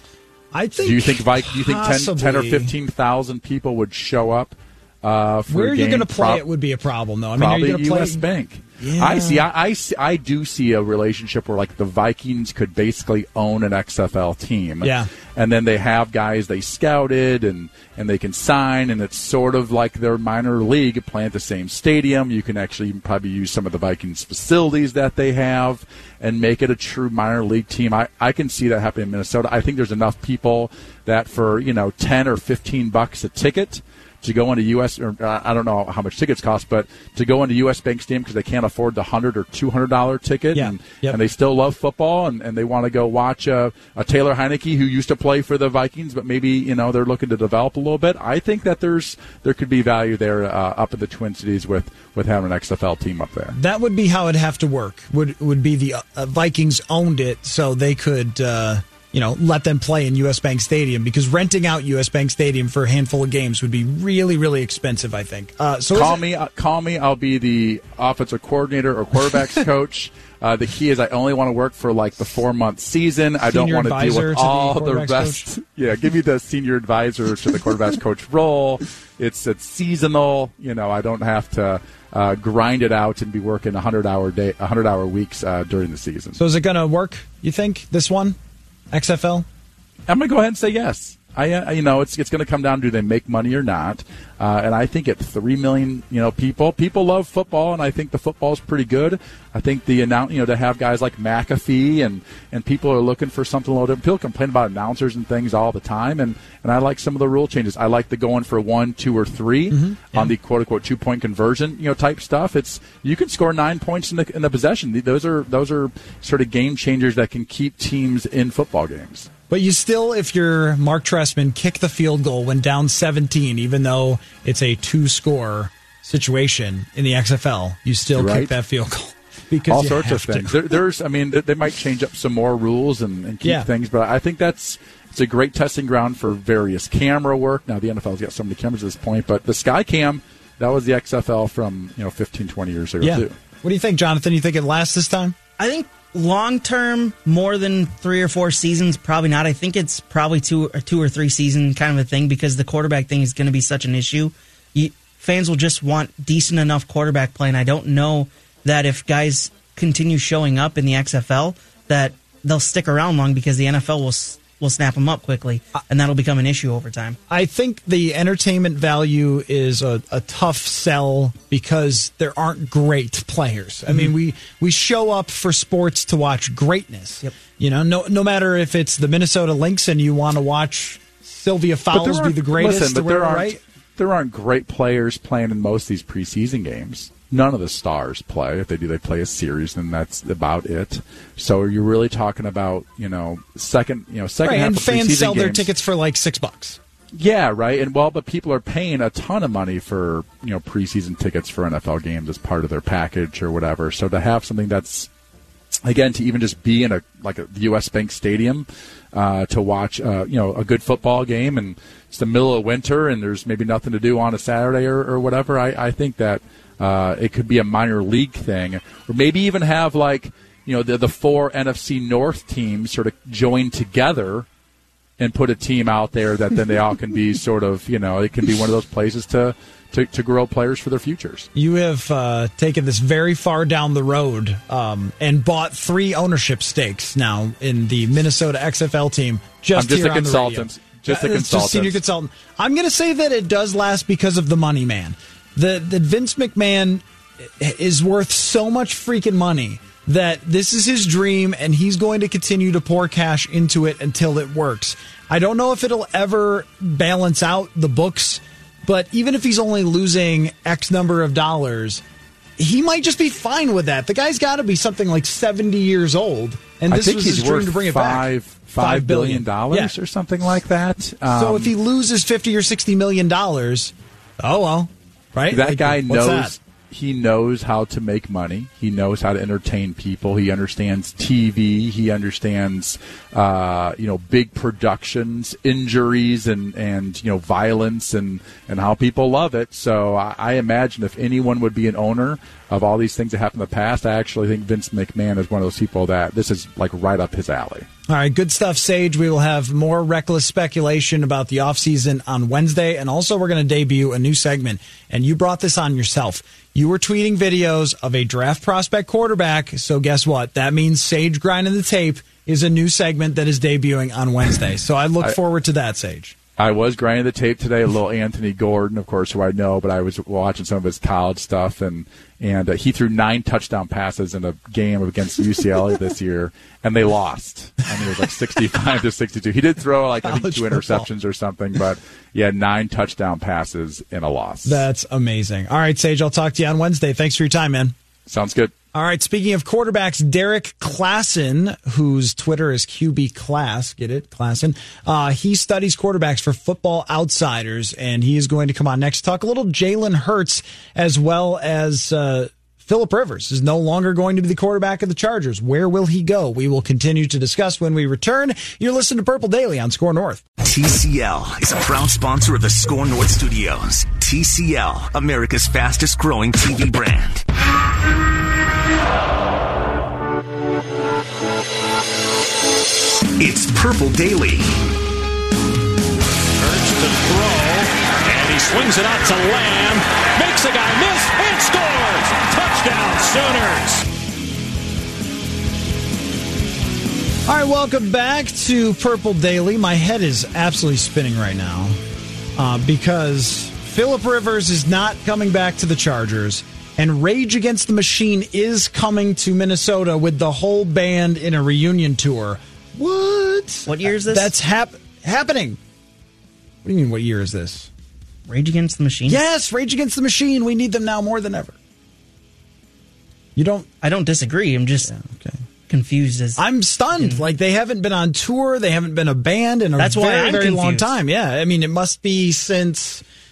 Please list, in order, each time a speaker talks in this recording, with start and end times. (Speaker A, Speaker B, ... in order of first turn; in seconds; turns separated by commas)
Speaker A: 0.5-2.7, Speaker B: 0.8-6.4, Speaker A: 5.5-8.2, Speaker B: 7.4-53.5, Speaker A: 8.8-9.4, Speaker A: 14.8-15.1, Speaker A: 40.5-41.2, Speaker A: 53.5-66.2, Speaker B: 65.9-86.4, Speaker A: 73.4-75.5, Speaker A: 86.3-88.4, Speaker A: 88.9-89.5, Speaker B: 90.1-119.3, Speaker A: 109.7-110.3, Speaker A: 119.5-130.6, Speaker B: 128.1-128.5, Speaker B: 129.7-143.3, Speaker A: 133.4-133.7, Speaker A: 143.0-145.3, Speaker C: 145.6-167.2, Speaker A: 167.3-183.6, Speaker B: 181.9-195.7, Speaker A: 194.4-196.8, Speaker B: 197.1-205.1, Speaker B: 205.8-224.5, Speaker B: 225.2-231.5, Speaker A: 231.5-262.0, Speaker B: 239.7-242.0, Speaker A: 262.6-269.9, Speaker B: 266.9-271.7, Speaker A: 271.3-276.5, Speaker B: 275.5-297.9, Speaker A: 298.1-316.3, Speaker B: 316.6-334.8, Speaker A: 330.2-331.1, Speaker A: 334.6-337.9, Speaker B: 338.3-338.7, Speaker A: 338.9-360.4, Speaker D: 360.6-367.4, Speaker D: 373.4-374.8, Speaker E: 376.6-384.1, Speaker A: 387.5-392.0, Speaker A: 392.6-405.8, Speaker C: 403.9-404.5, Speaker A: 406.8-407.9, Speaker C: 408.5-409.4, Speaker A: 409.3-411.8, Speaker A: 413.6-413.9, Speaker C: 414.0-415.1, Speaker A: 415.0-415.6, Speaker C: 415.9-416.6, Speaker A: 416.6-423.2, Speaker C: 417.1-417.4, Speaker C: 420.0-421.1